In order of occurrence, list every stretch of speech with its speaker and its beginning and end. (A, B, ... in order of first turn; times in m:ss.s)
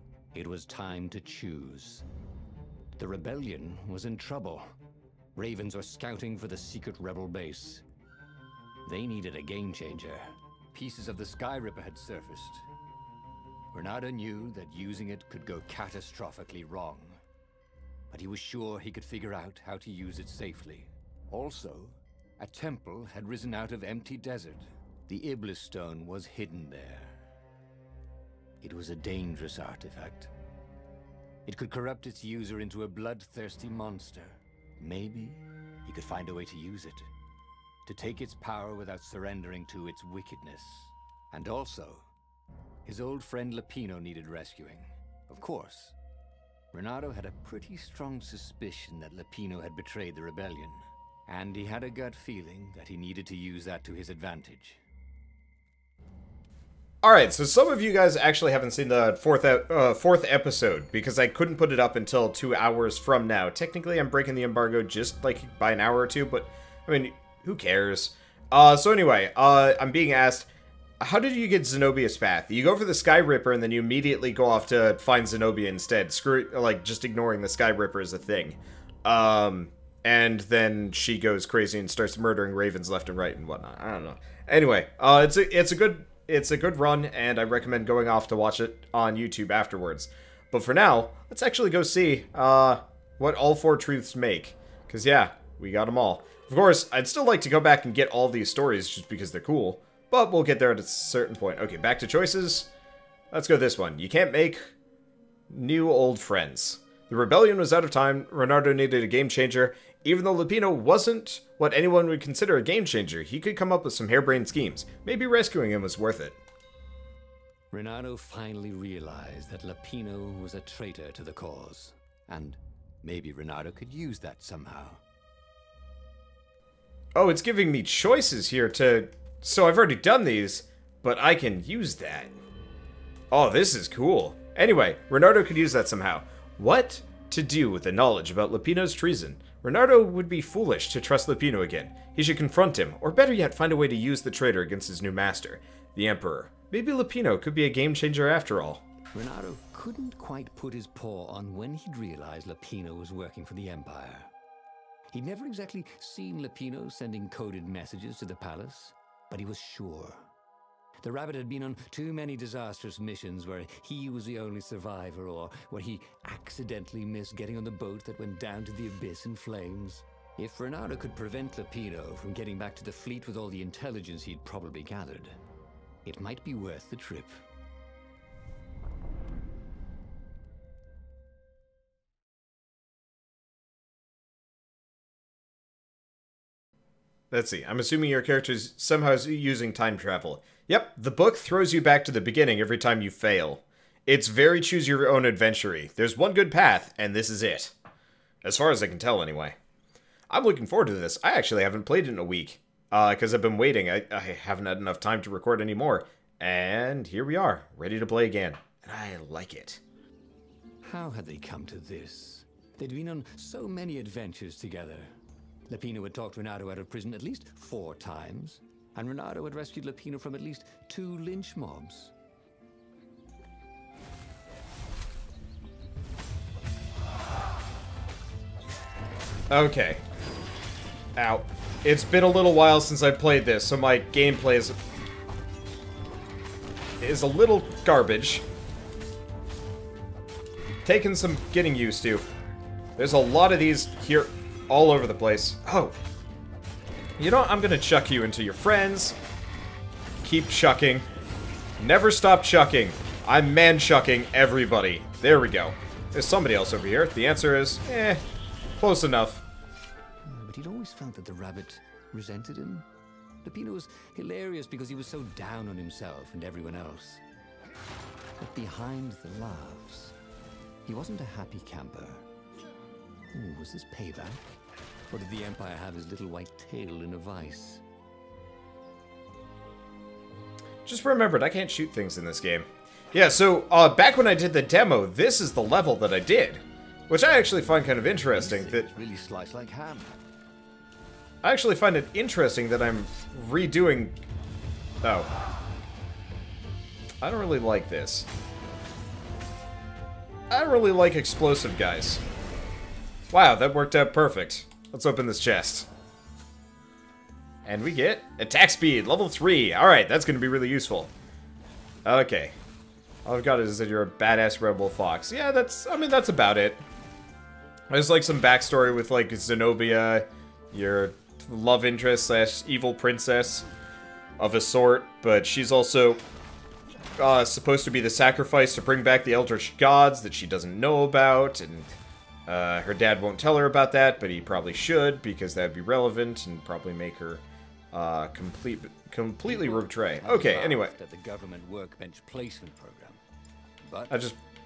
0:00.3-0:02.1 A
0:03.0-0:04.7 A
0:05.4-0:07.8 A
0:08.8-0:12.7 A
0:13.7-0:17.2 A
0:18.1-0:27.2 A
0:28.6-0:30.3 A
0:31.5-0:37.1 A
0:37.8-0:42.0 A
0:42.8-0:46.0 A
0:46.7-0:54.8 A
0:57.0-1:10.5 B
1:11.0-1:42.7 B
1:43.3-1:44.7 B
1:45.5-1:56.4 B
1:57.7-2:05.0 A
2:07.2-2:12.3 B
2:13.3-2:28.8 B
2:29.1-2:34.3 A
2:35.1-2:40.3 A
2:41.0-2:55.4 A
2:56.0-2:57.4 A
3:07.3-3:17.7 B
3:18.4-3:19.6 B
3:20.3-3:29.8 B
3:30.8-3:35.1 A
3:35.7-3:42.1 A
3:49.5-3:50.0 B
3:51.2-3:54.8 B
3:57.0-3:58.5 B
4:00.8-4:02.3 B
4:03.0-4:06.0 B
4:07.2-4:09.2 B
4:10.2-4:11.0 B
4:11.8-4:18.2 B
4:18.8-4:19.4 B
4:20.2-4:22.9 A
4:23.4-4:27.2 A
4:28.4-4:30.2 A
4:30.9-4:32.2 A
4:33.3-4:34.6 A
4:35.1-4:37.8 A
4:40.9-4:48.9 B
4:48.3-4:50.2 A
4:51.4-4:54.2 B
4:55.0-4:55.3 B
4:57.2-4:58.3 B
5:00.5-5:02.2 B
5:03.3-5:05.9 B
5:07.6-5:11.1 B
5:12.0-5:12.6 B
5:13.2-5:16.8 B
5:17.9-5:23.7 B
5:24.4-5:26.2 B
5:27.2-5:32.0 B
5:32.5-5:40.9 B
5:39.4-5:43.2 A
5:43.8-5:44.2 A
5:44.1-5:44.4 B